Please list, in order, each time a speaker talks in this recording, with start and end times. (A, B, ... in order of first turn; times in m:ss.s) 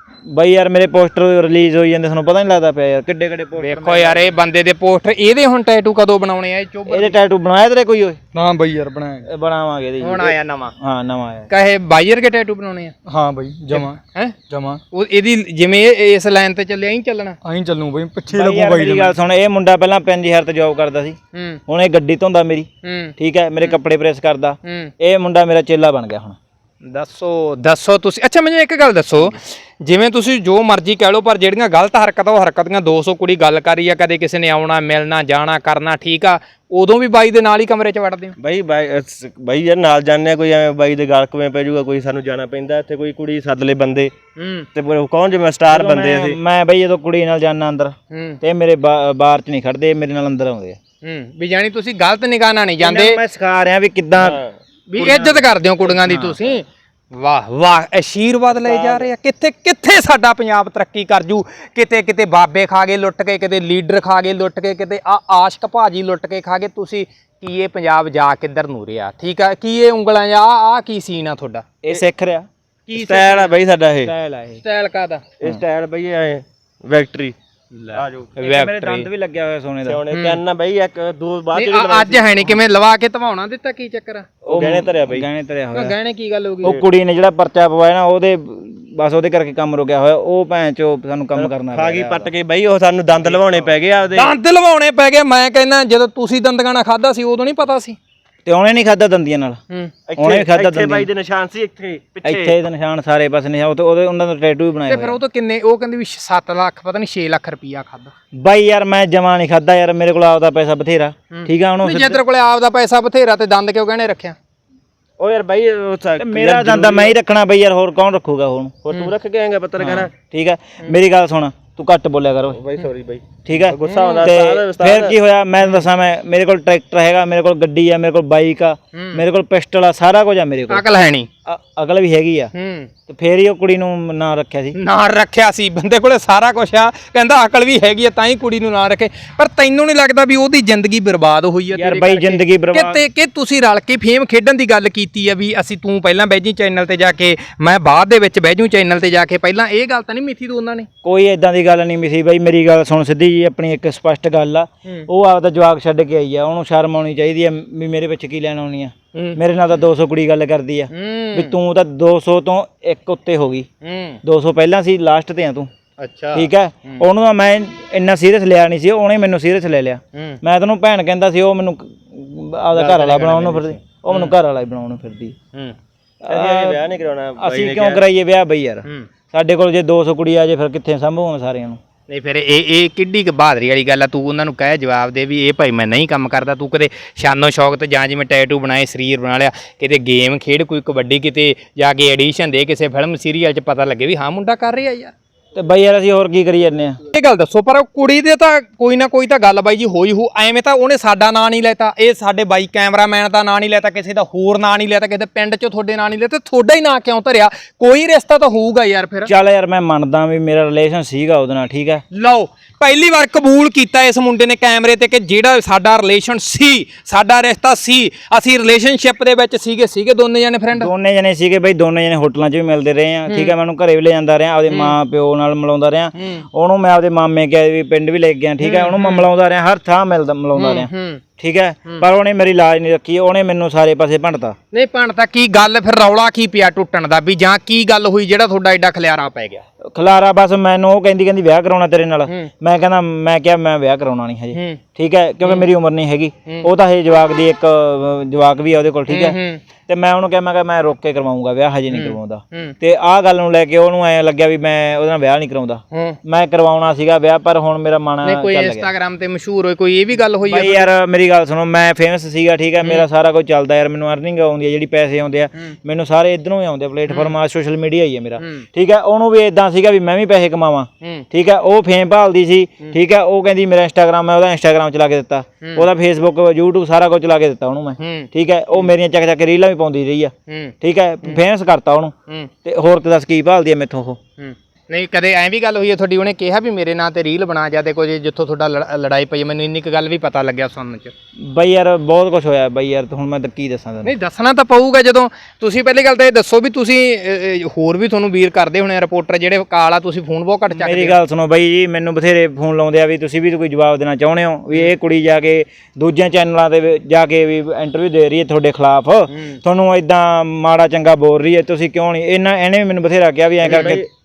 0:00.3-0:04.3 A
0:03.6-0:07.2 B
0:06.9-0:08.2 A
0:08.3-0:09.3 C
0:09.2-0:11.5 A
0:10.0-0:10.7 B
0:11.5-0:13.0 B
0:13.1-0:14.0 C
0:13.7-0:17.4 B
0:14.5-0:14.8 C
0:17.4-0:19.2 C
0:18.3-0:21.2 A
0:21.3-0:21.6 B
0:21.7-0:26.4 A
0:22.8-0:23.8 B
0:24.7-0:24.9 B
0:26.8-0:38.4 B
0:38.4-0:44.1 D
0:44.4-0:44.7 B
0:44.8-0:46.4 D
0:45.7-0:50.8 A
0:48.1-0:48.4 B
0:51.0-0:53.2 B
0:52.8-0:54.4 A
0:54.2-0:54.5 D
0:54.9-1:11.6 B
0:55.0-0:55.4 A
0:55.9-0:56.4 A
0:58.6-0:59.1 D
1:11.8-1:12.5 A
1:12.9-1:13.5 B
1:12.9-1:14.1 D
1:14.0-1:14.6 A
1:14.6-1:15.2 B
1:15.4-1:17.4 D
1:17.7-1:19.1 B
1:17.9-1:18.3 D
1:18.4-1:20.0 A
1:19.8-1:22.6 D
1:20.1-1:20.4 B
1:21.6-1:24.3 B
1:24.4-1:26.0 A
1:24.5-1:25.3 D
1:25.7-1:26.8 B
1:26.6-1:32.3 A
1:31.4-1:34.3 D
1:33.3-1:33.6 A
1:34.2-1:38.0 B
1:38.4-1:39.6 A
1:40.1-1:42.6 D
1:40.2-1:41.1 A
1:42.2-1:45.2 A
1:44.9-1:48.1 B
1:48.4-1:52.2 A
1:51.3-1:54.4 B
1:55.2-1:57.2 D
1:56.2-1:58.8 A
1:58.8-2:00.1 D
1:59.8-2:02.6 A
2:02.5-2:05.2 D
2:03.5-2:10.9 A
2:03.9-2:04.3 B
2:05.6-2:05.9 B
2:08.9-2:09.2 B
2:10.7-2:11.3 B
2:11.5-2:12.5 A
2:12.5-2:12.9 B
2:13.1-2:14.8 A
2:14.8-2:30.9 B
2:21.7-2:23.0 A
2:31.0-2:43.7 A
2:39.1-2:39.4 B
2:40.9-2:41.6 B
2:43.8-2:44.2 B
2:44.2-2:45.7 A
2:46.0-2:47.0 B
2:46.3-2:55.4 A
2:50.1-2:50.4 B
2:52.8-2:54.3 B
2:56.2-2:56.8 A
2:56.3-2:58.0 D
2:57.4-3:01.8 A
3:02.1-3:15.1 B
3:15.6-3:17.0 A
3:17.1-3:29.3 B
3:29.3-3:32.0 A
3:32.1-3:40.9 B
3:40.7-3:54.6 A
3:44.7-3:45.0 B
3:46.2-3:46.4 B
3:48.6-3:49.3 B
3:50.6-3:51.2 B
3:54.7-3:59.6 B
4:00.0-4:18.9 A
4:04.5-4:04.8 B
4:09.1-4:09.6 B
4:11.9-4:12.8 B
4:15.9-4:16.2 B
4:18.2-4:20.9 B
4:20.5-4:44.2 A
4:27.1-4:27.4 B
4:28.4-4:28.6 B
4:35.6-4:35.9 B
4:38.0-4:38.9 B
4:40.5-4:41.4 B
4:44.4-4:51.1 B
4:51.4-4:54.1 A
4:54.0-5:01.2 B
5:00.7-5:14.0 A
5:13.6-5:14.1 D